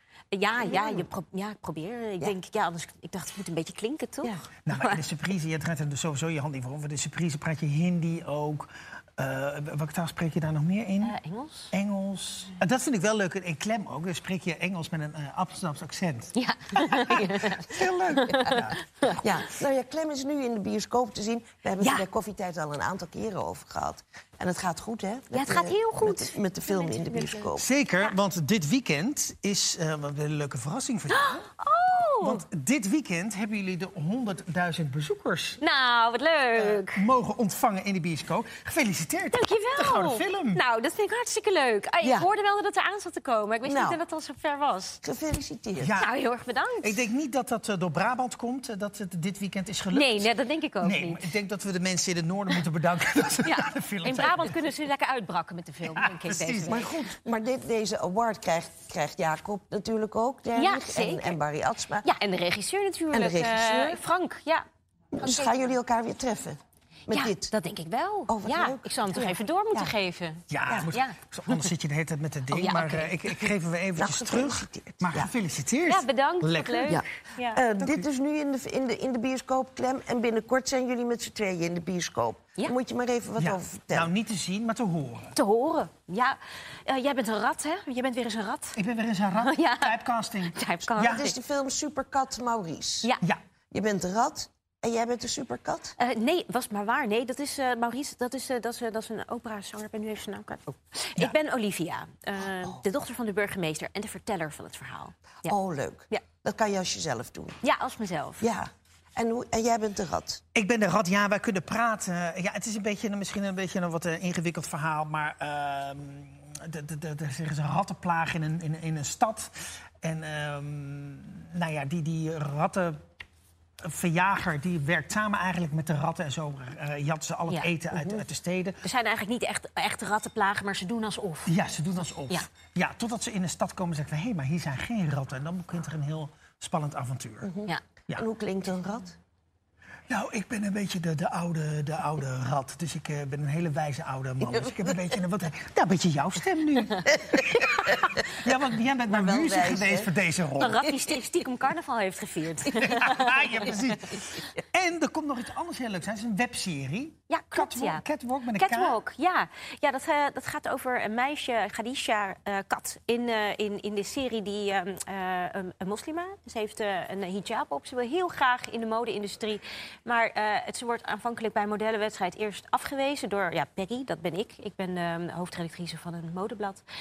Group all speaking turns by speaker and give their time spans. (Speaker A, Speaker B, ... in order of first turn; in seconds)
Speaker A: 0.3-5.0, 11.0-11.7, 16.3-19.2, 21.8-22.1, 25.3-28.1, 31.1-32.4, 35.6-37.0, 39.3-45.0, 46.0-46.9, 49.9-51.3, 53.4-56.9, 60.5-61.4, 62.0-64.6, 65.2-65.7, 67.1-71.7, 72.5-73.4, 75.9-77.6, 85.3-88.8, 89.4-91.3, 96.0-105.5, 107.6-108.5, 128.8-131.6, 150.6-154.2, 157.3-158.0, 158.5-176.8
Speaker B: 0.6-1.1, 19.2-27.7, 42.0-42.3, 43.6-44.0, 45.0-45.9, 56.7-62.0, 63.1-64.0, 65.1-67.5, 68.3-69.9, 74.0-75.3, 76.9-84.1, 91.0-93.1, 93.7-95.9, 105.5-107.6, 108.4-110.4, 127.9-128.2, 137.4-139.2, 144.4-144.9, 147.5-148.1, 149.1-150.1
Speaker C: 4.7-11.1, 11.7-19.1, 27.6-31.4, 32.2-35.6, 36.6-40.6, 45.8-46.1, 46.8-50.3, 50.8-54.5, 56.0-57.0, 70.5-77.0, 77.8-78.0, 83.4-85.3, 88.8-91.2, 110.5-123.0, 123.8-128.8, 131.4-137.5, 140.1-150.8, 152.7-159.0